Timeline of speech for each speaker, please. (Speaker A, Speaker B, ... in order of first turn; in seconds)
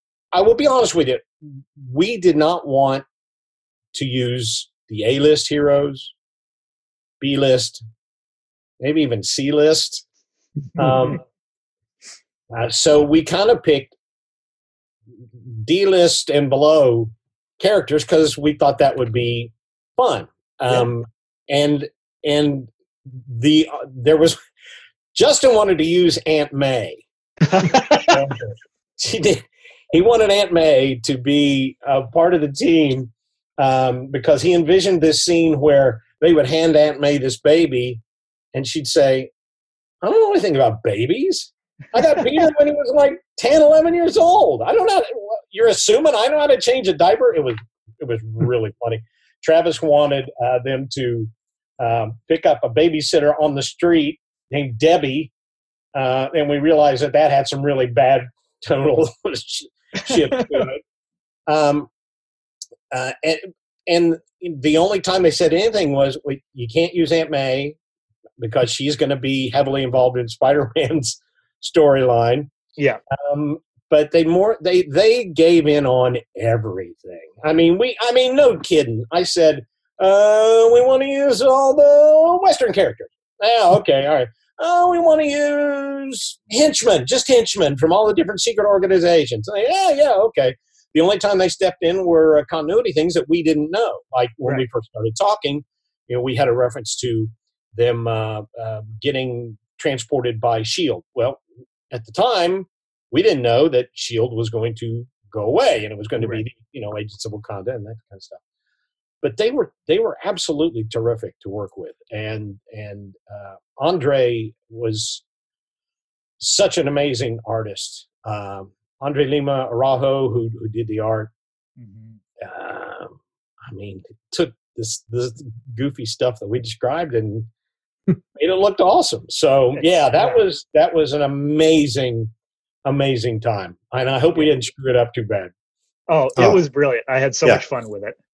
Speaker A: 0.3-3.0, 3.9-6.1, 7.2-7.8, 8.8-10.1, 10.8-11.2, 12.5-13.9, 15.5-24.4, 25.1-27.1, 27.7-38.0, 38.5-39.3, 40.0-55.3, 56.0-60.8, 61.5-61.9, 62.9-67.8, 68.4-72.5, 73.2-108.4, 109.2-115.2, 116.4-121.3, 122.4-127.5, 128.4-132.3, 132.8-135.5
Speaker B: 10.8-11.2, 27.5-28.2, 106.2-106.5, 121.8-122.2, 129.7-130.4, 136.1-138.2